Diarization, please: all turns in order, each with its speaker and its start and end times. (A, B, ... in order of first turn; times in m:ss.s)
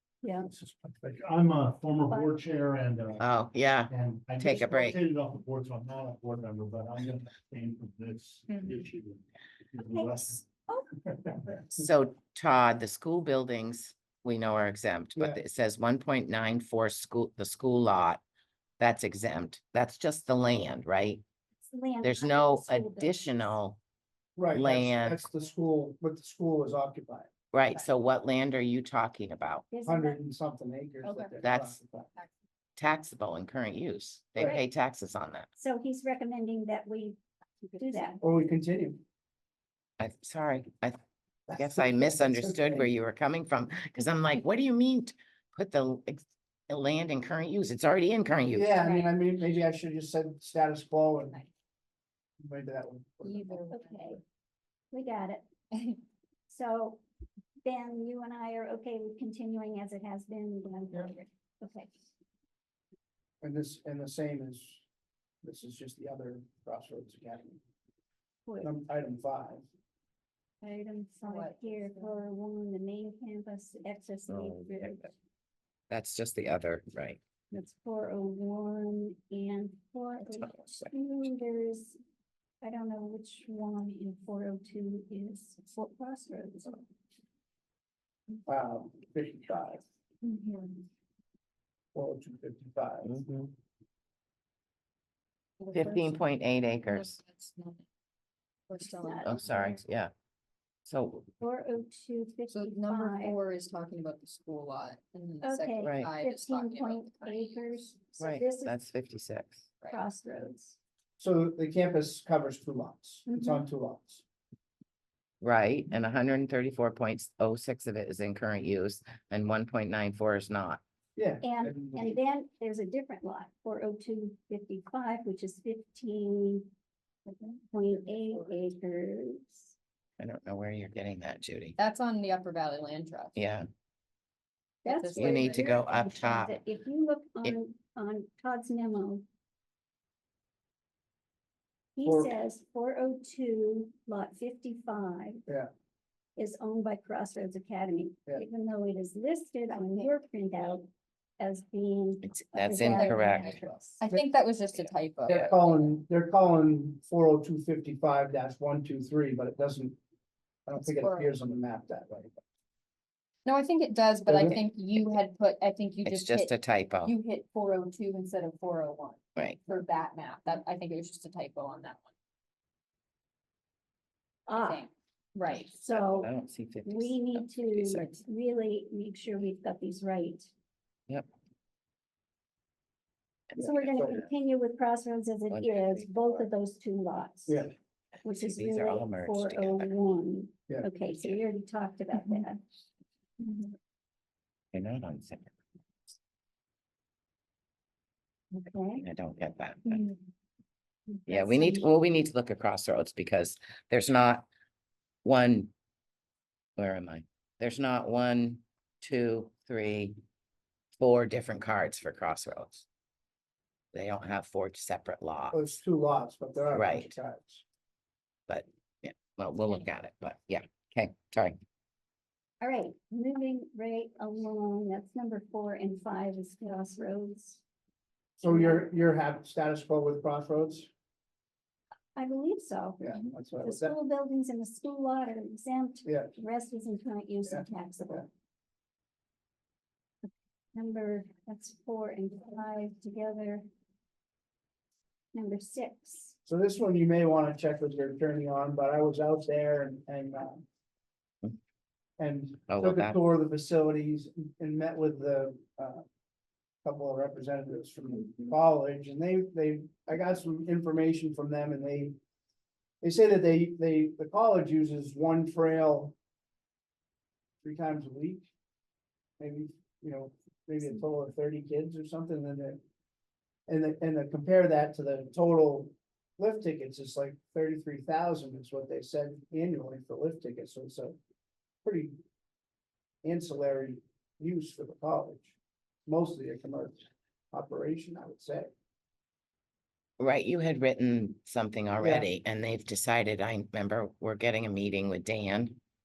0:00.2-0:00.5 A
0:00.6-0:03.2 B
0:02.1-0:02.4 A
0:03.2-0:05.0 C
0:03.9-0:09.2 B
0:09.8-0:10.4 B
0:09.8-0:10.9 A
0:11.8-0:18.2 C
0:15.2-0:15.4 D
0:18.8-0:21.2 C
0:21.7-0:23.5 A
0:22.0-0:23.8 C
0:24.4-0:27.3 D
0:24.5-0:25.3 C
0:27.5-0:29.7 C
0:29.7-0:30.2 A
0:29.9-0:32.1 D
0:31.0-0:31.3 E
0:31.4-0:31.8 C
0:32.8-0:35.5 C
0:35.6-0:37.2 A
0:37.7-0:38.2 E
0:37.8-0:38.2 A
0:38.2-0:39.0 D
0:40.0-0:41.0 C
0:41.5-0:42.9 D
0:41.6-0:48.8 C
0:48.5-0:51.4 D
0:52.4-0:53.6 D
0:53.2-0:54.2 E
0:53.7-0:54.2 A
0:54.9-0:55.4 A
0:56.5-0:57.0 A
0:57.6-1:01.9 A
1:03.4-1:04.8 D
1:05.4-1:07.6 D
1:08.5-1:08.7 A
1:08.6-1:09.7 D
1:10.6-1:15.1 A
1:11.3-1:12.2 E
1:14.3-1:15.1 C
1:15.9-1:17.2 C
1:17.5-1:22.0 A
1:22.6-1:26.9 A
1:28.5-1:29.8 D
1:30.2-1:30.8 E
1:31.9-1:33.2 D
1:33.0-1:33.5 C
1:35.6-1:36.2 E
1:35.7-1:37.2 C
1:36.8-1:37.8 E
1:38.7-1:39.4 E
1:38.9-1:39.8 A
1:39.2-1:40.1 C
1:40.8-1:41.3 C
1:41.4-1:43.4 A
1:42.5-1:47.8 E
1:45.4-1:48.8 A
1:45.8-1:46.1 C
1:48.2-1:49.6 C
1:49.9-1:50.8 A
1:51.2-1:54.2 D
1:53.3-1:53.6 A
1:55.4-2:00.8 C
2:01.2-2:02.2 D
2:01.4-2:06.7 A
2:07.3-2:07.6 E
2:07.7-2:09.7 A
2:10.2-2:11.8 C
2:11.8-2:13.4 E
2:13.4-2:13.7 C
2:14.8-2:19.2 A
2:14.9-2:15.8 E
2:15.2-2:16.6 C
2:22.0-2:25.4 A
2:22.0-2:22.4 D
2:26.4-2:30.9 A
2:29.9-2:30.1 E
2:31.4-2:34.0 A
2:32.2-2:33.6 C
2:32.8-2:35.5 E
2:35.3-2:40.0 D
2:40.7-2:42.4 D
2:40.8-2:41.3 E
2:43.5-2:52.1 E
2:44.3-2:44.6 D
2:46.0-2:47.1 C
2:54.5-2:54.9 A
2:54.6-2:55.8 E
2:55.8-2:56.3 A
2:55.9-2:58.2 C
2:56.9-3:00.5 A
3:03.6-3:07.6 A
3:03.6-3:04.2 D
3:05.5-3:06.5 C
3:07.5-3:07.7 D
3:08.2-3:12.6 A
3:08.4-3:09.9 C
3:11.1-3:11.4 C
3:12.2-3:12.4 E
3:13.4-3:13.7 E
3:14.7-3:15.5 C
3:18.5-3:19.0 A
3:19.0-3:20.0 C
3:21.2-3:21.9 A
3:21.3-3:24.5 C
3:25.2-3:25.7 C
3:26.8-3:30.2 C
3:31.0-3:32.9 C
3:33.9-3:35.6 C
3:35.5-3:37.6 D
3:36.7-3:37.1 C
3:38.5-3:41.6 C
3:42.6-3:47.6 A
3:48.4-3:50.9 D
3:48.4-3:48.8 A
3:52.2-3:58.3 A
3:53.0-3:54.0 D
3:56.0-3:56.3 D
3:57.5-3:58.3 D
4:00.8-4:03.7 A
4:05.3-4:06.4 A
4:06.5-4:10.6 D
4:12.2-4:16.0 D
4:12.7-4:13.2 C
4:16.8-4:22.2 D
4:23.0-4:26.2 D
4:27.6-4:28.5 D
4:29.4-4:32.8 D
4:33.7-4:41.2 D
4:41.8-4:42.2 D
4:43.2-4:48.7 D
4:50.2-4:55.8 C
4:52.0-4:52.3 D